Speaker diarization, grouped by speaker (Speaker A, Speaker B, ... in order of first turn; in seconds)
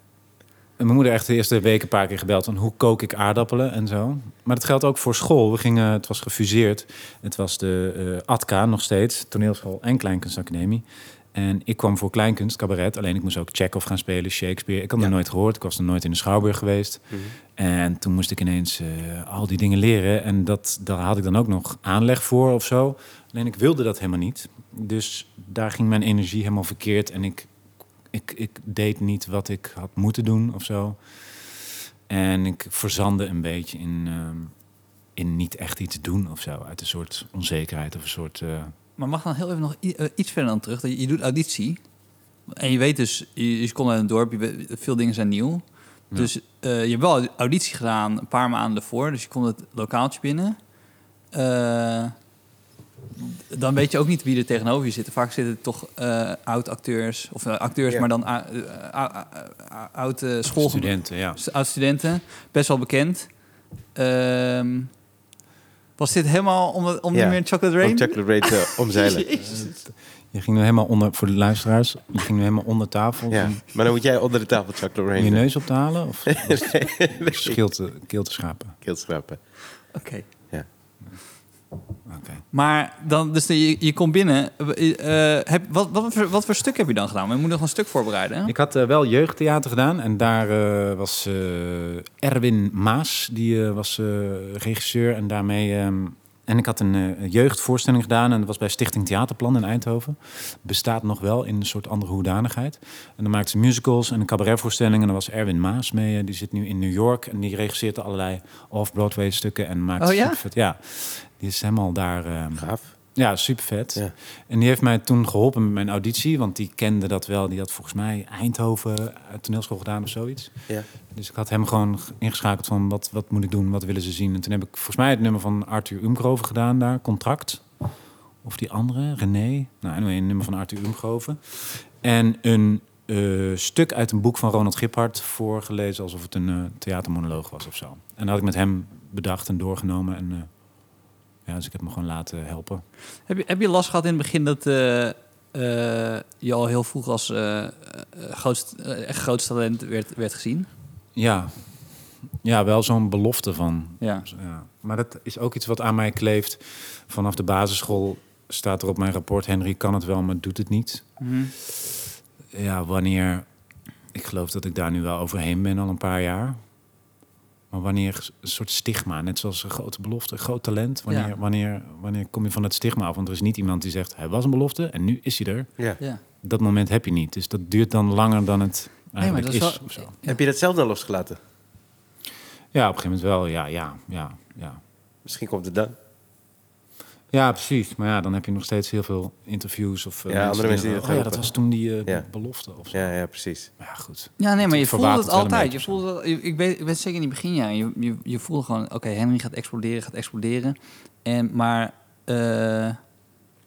Speaker A: 0.8-17.0, 17.6-27.5, 28.1-31.0, 32.1-34.5, 35.2-38.7, 60.6-61.4, 69.5-69.8, 70.3-73.6, 75.2-78.8, 82.1-82.4, 88.5-120.5, 121.1-127.6, 128.4-140.5, 141.5-142.8, 151.2-151.6, 152.4-161.1, 162.5-163.5, 164.1-166.6, 167.7-175.7, 176.4-180.1, 182.7-184.8, 187.3-193.1, 193.8-196.0
Speaker B: 39.0-41.8, 42.5-45.6, 46.1-50.6, 51.3-52.1, 53.2-63.3, 64.0-64.9, 66.0-69.8, 79.9-80.3, 82.5-88.5, 110.0-110.4, 143.3-150.7, 154.0-154.3, 161.2-161.5, 179.2-180.4, 194.4-203.0
Speaker C: 67.1-69.3, 73.3-75.5, 76.3-77.6, 78.8-79.4, 112.6-112.9, 180.2-181.4, 185.2-186.0, 190.3-191.4, 192.9-193.7